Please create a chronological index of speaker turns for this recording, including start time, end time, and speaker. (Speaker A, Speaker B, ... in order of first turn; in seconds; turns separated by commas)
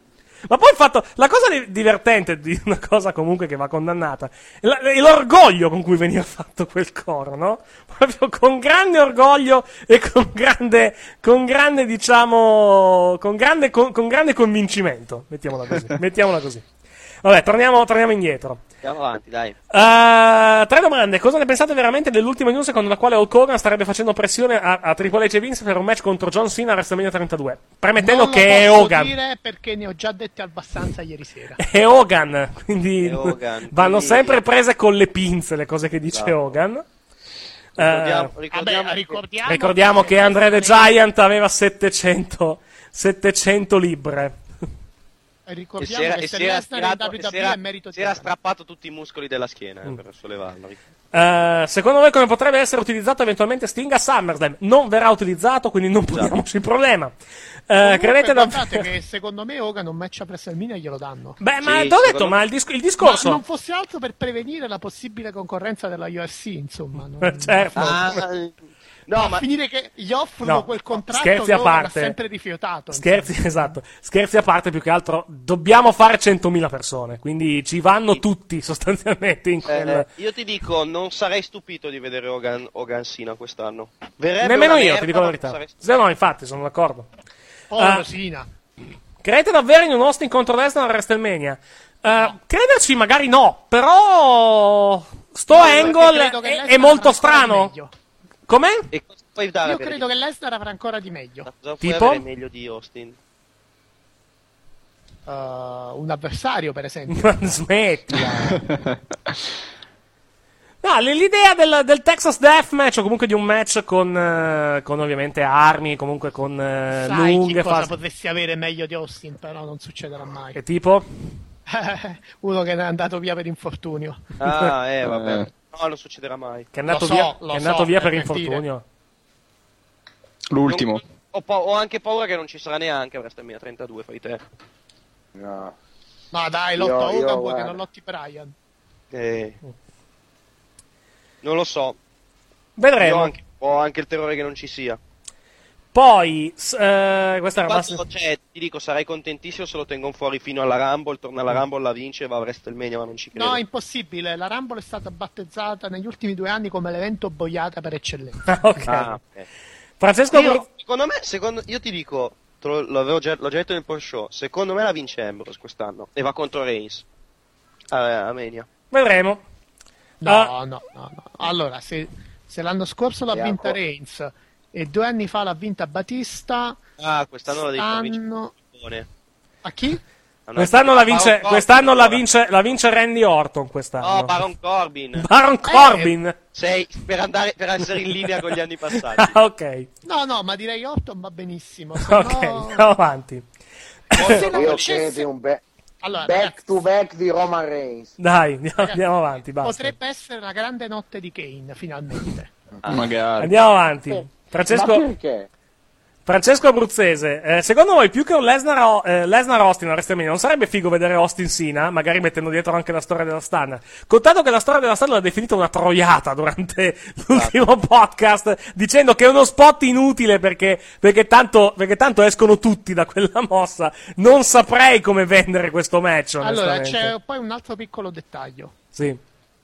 Speaker A: 0.5-16.6, Speaker A: 17.2-18.6, Speaker B: 18.8-19.6, Speaker A: 19.7-29.1, Speaker C: 28.0-31.6, Speaker A: 31.6-36.9, Speaker B: 33.0-34.4, Speaker A: 37.8-38.3, Speaker B: 37.8-39.2, Speaker C: 38.5-41.0, Speaker A: 39.5-44.4, Speaker C: 45.5-48.3, Speaker B: 45.8-50.8, Speaker A: 51.1-57.1, Speaker A: 57.7-58.9, Speaker C: 57.8-61.4, Speaker A: 61.4-63.4, Speaker B: 61.6-62.4, Speaker C: 63.0-68.2, Speaker A: 67.2-68.2, Speaker B: 67.8-68.6, Speaker B: 69.1-69.5, Speaker C: 69.2-73.8, Speaker A: 70.4-72.2, Speaker A: 72.9-80.1, Speaker B: 79.7-85.8, Speaker A: 84.4-87.1, Speaker C: 87.7-88.5, Speaker A: 87.8-88.1, Speaker A: 89.2-97.7, Speaker C: 95.5-97.9, Speaker B: 95.5-96.0, Speaker A: 98.5-98.9, Speaker B: 98.9-100.1, Speaker C: 99.6-101.5, Speaker B: 101.5-103.2, Speaker A: 101.8-102.2, Speaker C: 105.3-107.5, Speaker A: 107.1-108.6, Speaker D: 108.3-109.4, Speaker A: 110.8-117.9, Speaker C: 117.0-120.6, Speaker A: 120.5-121.1, Speaker C: 121.7-124.2, Speaker B: 124.4-126.7, Speaker D: 125.0-125.5, Speaker A: 126.7-128.8, Speaker C: 126.9-128.6, Speaker D: 130.5-131.0, Speaker B: 130.7-134.4, Speaker E: 135.3-135.8, Speaker C: 136.3-138.5, Speaker E: 136.8-137.8, Speaker B: 139.1-139.6, Speaker B: 141.4-142.0, Speaker A: 142.8-143.3, Speaker B: 143.0-145.0, Speaker A: 145.9-148.0, Speaker B: 147.7-153.6, Speaker C: 153.3-159.0, Speaker A: 158.4-159.2, Speaker B: 158.9-159.5, Speaker A: 160.0-160.7, Speaker B: 160.4-167.1, Speaker B: 167.9-168.7, Speaker A: 168.9-169.4, Speaker C: 170.2-176.8, Speaker A: 170.2-170.5, Speaker E: 173.3-173.8, Speaker B: 177.0-179.1, Speaker C: 177.7-178.6, Speaker C: 179.6-180.0, Speaker B: 180.5-182.2, Speaker A: 180.6-184.4, Speaker B: 184.0-185.2, Speaker A: 185.2-186.3, Speaker C: 185.7-186.2, Speaker B: 186.5-189.3, Speaker A: 189.1-189.9, Speaker C: 190.1-192.9, Speaker A: 192.0-193.4, Speaker A: 194.1-194.4, Speaker B: 194.2-195.1, Speaker C: 194.2-195.3, Speaker E: 194.3-195.6, Speaker C: 196.0-196.6, Speaker E: 196.1-198.2, Speaker A: 198.2-199.9, Speaker C: 199.6-202.5, Speaker D: 202.9-203.5, Speaker A: 203.4-205.1, Speaker E: 204.7-205.5, Speaker A: 206.3-227.1, Speaker C: 226.4-228.8, Speaker A: 228.9-229.2